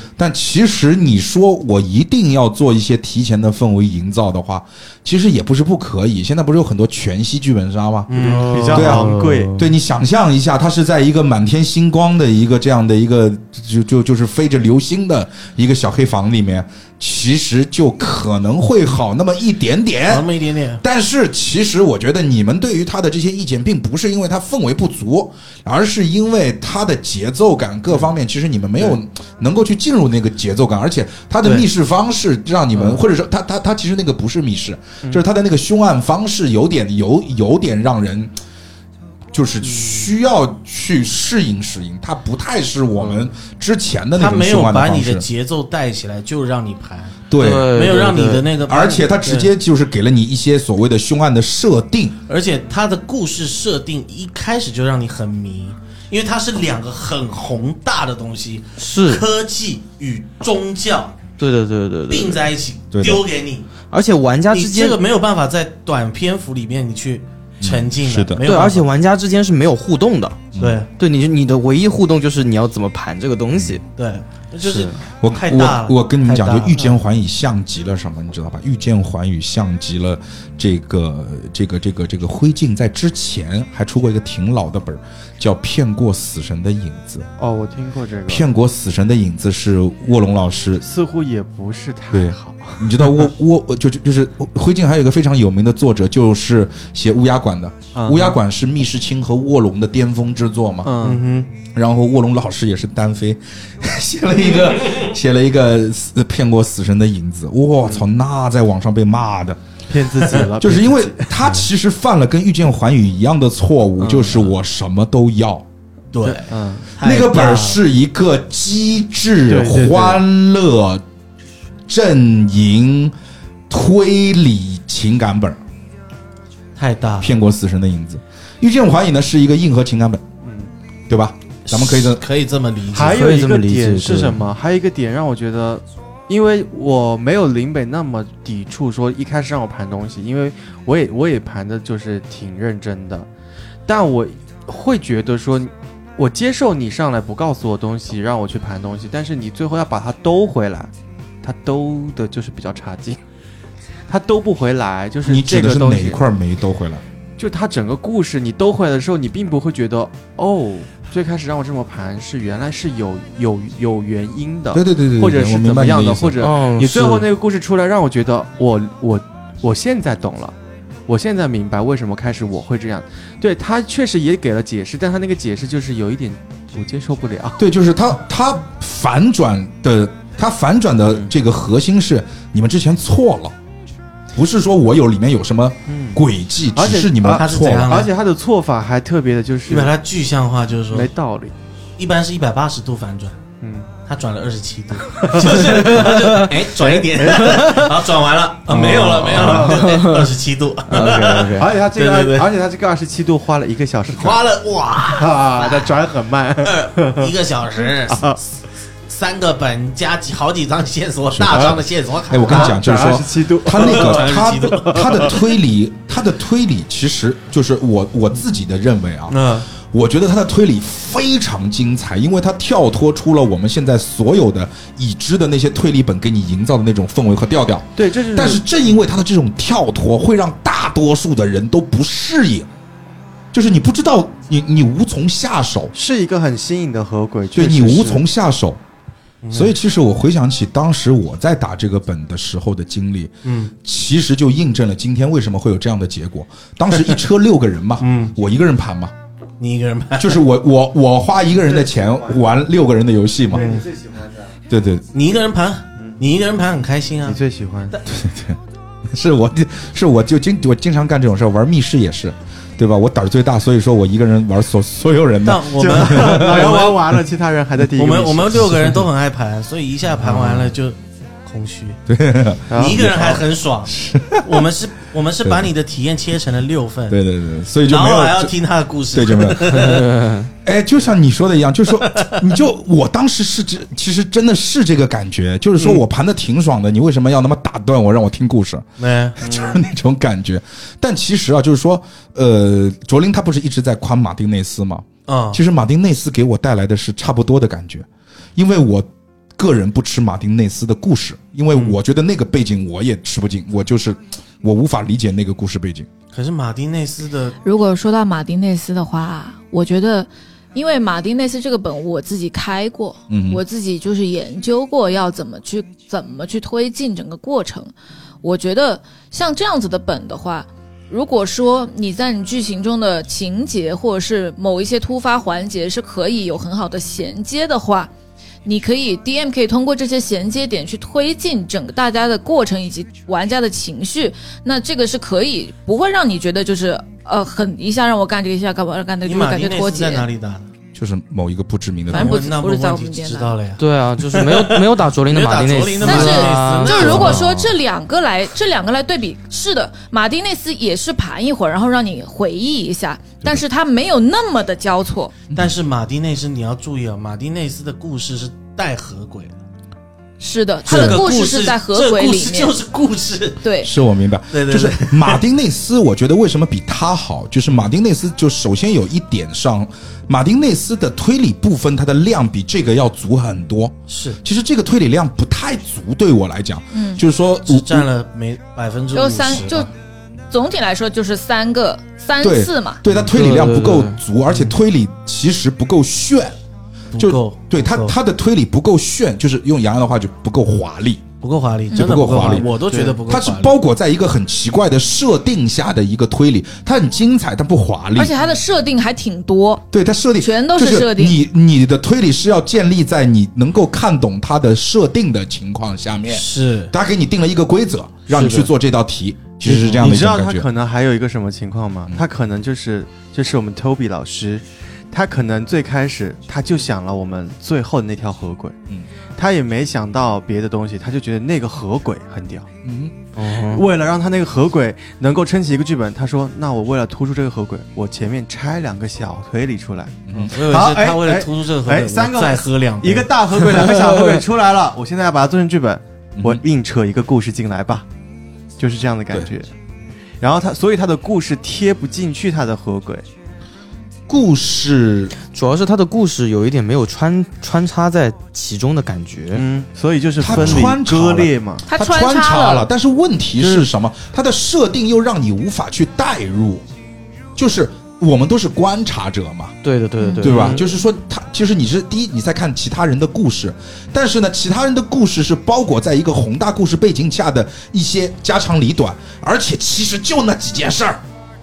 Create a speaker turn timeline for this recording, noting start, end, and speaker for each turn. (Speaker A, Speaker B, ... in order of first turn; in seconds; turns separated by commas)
Speaker A: 0.2-20.3, Speaker B: 8.1-9.2, Speaker C: 8.1-9.7, Speaker D: 8.3-9.5, Speaker B: 20.1-20.8, Speaker A: 20.8-38.3, Speaker A: 39.3-45.2, Speaker B: 44.1-49.5, Speaker A: 47.3-47.8, Speaker D: 47.4-48.5, Speaker A: 48.6-52.2, Speaker B: 52.3-61.2, Speaker D: 58.8-59.2, Speaker D: 61.4-62.4, Speaker B: 62.1-63.7, Speaker A: 62.9-63.2, Speaker D: 63.9-65.0, Speaker B: 64.5-68.9, Speaker A: 67.6-68.5, Speaker D: 68.4-73.8, Speaker A: 70.5-70.8, Speaker B: 70.6-70.9, Speaker A: 73.5-73.8, Speaker B: 74.0-77.0, Speaker A: 75.2-87.3, Speaker C: 87.4-88.5, Speaker A: 88.3-90.8, Speaker C: 90.8-93.3, Speaker A: 92.1-100.9, Speaker C: 97.9-98.4, Speaker C: 100.8-101.3, Speaker B: 101.0-101.5, Speaker A: 101.7-109.6, Speaker C: 109.9-111.6, Speaker A: 110.6-115.7, Speaker C: 114.0-114.5, Speaker B: 116.1-117.8, Speaker C: 116.2-116.9, Speaker A: 117.0-121.0, Speaker C: 119.5-120.2, Speaker A: 121.9-123.1, Speaker A: 123.7-125.6, Speaker B: 126.8-127.3, Speaker A: 127.2-130.2, Speaker C: 130.4-130.7, Speaker A: 131.1-132.2, Speaker B: 131.7-133.3, Speaker C: 132.9-143.3, Speaker D: 133.0-134.4, Speaker C: 143.8-150.9, Speaker C: 151.4-153.2, Speaker C: 154.1-156.2, Speaker A: 155.2-157.0, Speaker C: 157.4-170.6, Speaker A: 164.7-166.5, Speaker D: 166.4-167.3, Speaker C: 171.1-177.6, Speaker A: 177.6-183.5, Speaker A: 184.3-188.1, Speaker C: 185.9-186.2, Speaker C: 186.7-189.9, Speaker B: 187.3-188.1, Speaker B: 189.7-191.1, Speaker C: 190.9-191.5, Speaker B: 192.0-193.4, Speaker C: 193.6-193.9, Speaker B: 194.1-202.5, Speaker C: 195.2-196.0, Speaker D: 196.1-196.4, Speaker C: 196.8-197.8, Speaker C: 198.7-199.9, Speaker D: 199.3-200.2, Speaker D: 200.9-201.6, Speaker C: 201.5-204.4, Speaker B: 204.1-206.0, Speaker C: 205.0-207.3, Speaker B: 206.6-208.5, Speaker C: 208.1-208.4, Speaker B: 209.1-212.8, Speaker A: 211.3-232.7, Speaker C: 211.5-211.8, Speaker C: 212.4-215.4, Speaker B: 213.7-215.4, Speaker B: 219.3-219.7, Speaker C: 227.9-228.6, Speaker A: 233.5-235.9, Speaker C: 235.9-238.2, Speaker A: 237.5-238.8, Speaker B: 239.4-239.7, Speaker A: 239.5-249.1, Speaker B: 243.4-243.7, Speaker B: 248.0-248.3, Speaker B: 249.6-250.4, Speaker A: 250.2-253.7, Speaker C: 251.5-252.4, Speaker C: 253.5-254.6, Speaker B: 253.5-253.9, Speaker A: 254.7-255.1, Speaker B: 255.1-258.0, Speaker C: 257.2-258.0, Speaker A: 258.1-258.6, Speaker A: 259.1-266.7, Speaker B: 265.4-267.1, Speaker C: 265.8-269.0, Speaker B: 267.9-272.0, Speaker C: 270.2-270.7, Speaker A: 272.1-273.3, Speaker C: 272.7-273.4, Speaker B: 272.7-277.2, Speaker A: 273.9-274.6, Speaker A: 277.1-278.5, Speaker B: 277.9-280.3, Speaker A: 279.1-280.1, Speaker D: 280.1-280.4, Speaker A: 280.6-288.9, Speaker B: 282.0-282.4, Speaker B: 289.0-289.5, Speaker A: 289.4-306.1, Speaker B: 295.3-295.6, Speaker B: 301.7-302.0, Speaker B: 306.3-307.6, Speaker E: 307.6-328.1, Speaker A: 313.3-313.6, Speaker E: 328.6-340.2, Speaker B: 339.2-340.7, Speaker A: 340.9-342.4, Speaker B: 342.1-347.4, Speaker E: 342.1-343.5, Speaker D: 343.8-347.5, Speaker E: 346.0-355.3, Speaker B: 355.5-359.5, Speaker E: 360.4-362.7, Speaker B: 360.9-363.6, Speaker A: 360.9-361.2, Speaker E: 363.6-363.9, Speaker A: 363.8-378.1, Speaker B: 364.5-365.4, Speaker B: 374.1-374.4, Speaker E: 376.9-377.2, Speaker B: 377.6-379.9, Speaker E: 379.1-379.9, Speaker E: 380.5-383.0, Speaker A: 382.4-386.6, Speaker D: 383.2-384.2, Speaker B: 384.5-384.7, Speaker B: 387.1-388.1, Speaker A: 387.2-391.2, Speaker B: 391.4-393.8, Speaker A: 391.9-392.7, Speaker C: 392.5-393.2, Speaker A: 393.2-398.3, Speaker E: 398.1-399.8, Speaker A: 399.9-410.7, Speaker E: 400.4-401.4, Speaker B: 406.3-406.9, Speaker B: 408.3-408.7, Speaker B: 409.6-410.1, Speaker C: 409.6-418.8, Speaker C: 419.4-422.7, Speaker A: 422.8-423.1, Speaker D: 423.4-423.8, Speaker C: 423.5-438.1, Speaker A: 430.3-430.5, Speaker B: 430.5-433.3, Speaker D: 433.8-434.4, Speaker A: 436.4-436.6, Speaker C: 438.8-439.7, Speaker C: 440.4-443.2, Speaker A: 444.3-445.3, Speaker D: 445.4-449.6, Speaker C: 449.5-451.8, Speaker A: 450.4-456.8, Speaker E: 451.9-452.9, Speaker C: 453.6-453.8, Speaker A: 457.6-459.8, Speaker D: 459.8-460.8, Speaker E: 460.2-460.5, Speaker A: 460.4-471.2, Speaker C: 460.4-460.8